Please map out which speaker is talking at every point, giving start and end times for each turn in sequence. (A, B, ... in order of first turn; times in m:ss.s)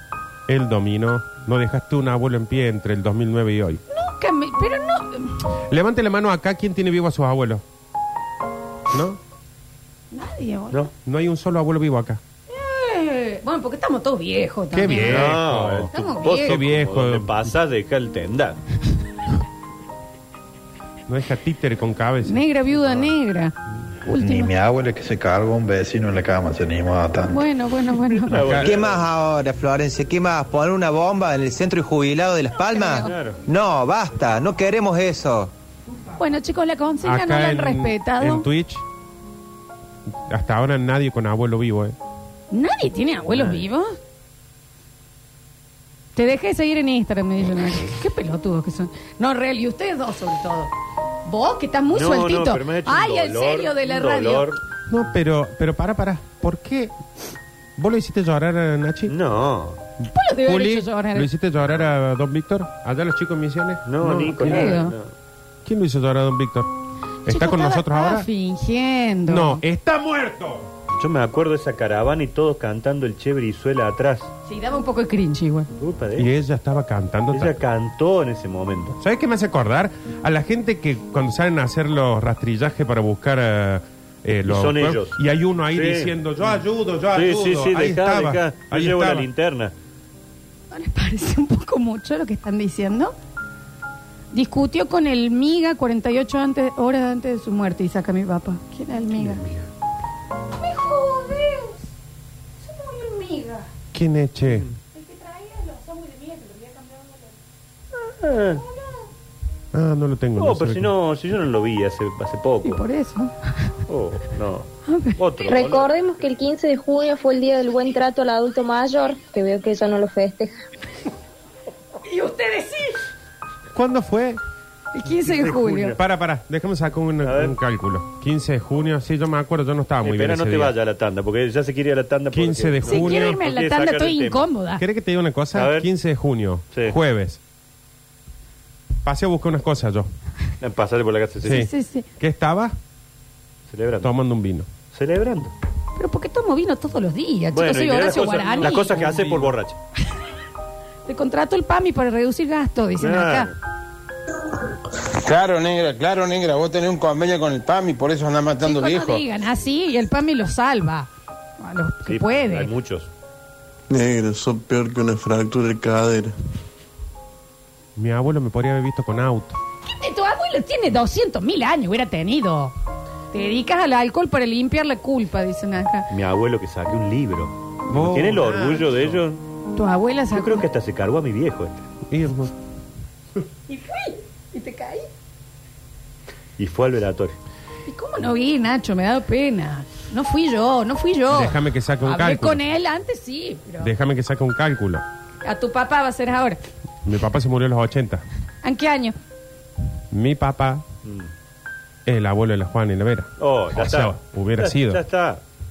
0:00.5-0:03.8 A
0:03.9-0:05.4 B
0:05.7-0:07.6 A
0:08.9-0:09.2 A
0:10.1-0:10.8 B
0:11.0-0:12.2 A
0:12.5-0:15.4 B
0:14.7-0:17.5 A
0:15.1-0:18.6 C
0:15.9-0:16.6 B
0:21.1-0:22.4 A
0:22.2-0:23.5 B
0:24.0-0:24.5 B
0:24.2-0:27.4 D
0:27.2-0:28.4 B
0:28.3-0:29.0 C
0:28.3-0:28.8 A
0:28.5-0:35.5 E
0:32.6-0:33.1 B
0:33.0-0:33.4 C
0:36.2-0:38.5 B
0:37.0-0:38.8 A
0:40.1-0:42.0 A
0:42.5-0:43.9 B
0:43.3-0:43.6 C
0:46.2-0:50.7 B
0:51.2-0:54.5 B
0:51.9-0:54.6 C
0:54.9-0:57.0 A
0:57.8-0:59.1 A
0:59.1-0:59.8 C
1:00.1-1:01.3 B
1:00.4-1:04.8 A
1:03.8-1:05.1 C
1:04.5-1:04.9 B
1:05.6-1:06.7 A
1:07.2-1:08.3 A
1:07.2-1:09.6 B
1:09.3-1:10.7 A
1:11.0-1:14.3 C
1:14.4-1:15.7 B
1:15.7-1:16.3 C
1:16.2-1:17.6 A
1:17.3-1:19.0 C
1:19.0-1:29.3 A
1:24.5-1:25.2 C
1:25.7-1:26.1 C
1:27.1-1:29.7 C
1:30.7-1:33.1 B
1:34.3-1:39.4 B
1:40.6-1:41.9 B
1:42.6-1:43.7 B
1:43.9-1:44.7 A
1:44.5-1:44.7 C
1:44.9-1:47.3 B
1:48.2-1:48.6 C
1:48.6-1:49.0 B
1:49.7-1:50.9 A
1:50.4-1:52.8 C
1:52.6-1:53.7 B
1:53.9-1:55.9 C
1:54.8-1:55.2 B
1:55.4-2:00.5 F
2:02.0-2:03.0 B
2:03.7-2:04.4 A
2:04.9-2:06.0 B
2:05.2-2:06.0 C
2:05.9-2:10.8 A
2:07.2-2:07.6 C
2:10.0-2:14.5 C
2:12.3-2:13.4 A
2:12.8-2:14.8 B
2:14.8-2:17.4 A
2:15.5-2:15.9 C
2:19.0-2:20.1 A
2:20.6-2:21.7 C
2:21.4-2:22.8 A
2:21.4-2:22.1 B
2:23.7-2:24.1 C
2:24.0-2:24.7 A
2:24.9-2:25.5 C
2:26.0-2:29.1 B
2:27.5-2:29.8 C
2:28.9-2:29.5 A
2:31.1-2:33.5 B
2:33.0-2:33.6 C
2:35.2-2:39.2 G
2:38.6-2:41.1 B
2:41.6-2:42.7 B
2:42.0-2:43.1 C
2:43.9-2:46.3 H
2:48.0-2:49.6 A
2:49.9-2:52.7 B
2:53.3-2:56.1 B
2:56.1-2:59.4 C
2:57.9-2:59.2 A
2:59.7-3:00.6 B
3:00.3-3:01.8 C
3:02.1-3:02.5 A
3:03.7-3:05.1 B
3:06.6-3:07.4 C
3:07.9-3:13.9 B
3:11.3-3:12.6 A
3:13.8-3:15.0 A
3:15.4-3:16.6 B
3:17.0-3:18.2 A
3:18.6-3:19.2 B
3:20.1-3:20.8 A
3:21.0-3:21.3 C
3:22.0-3:25.0 A
3:23.4-3:25.4 C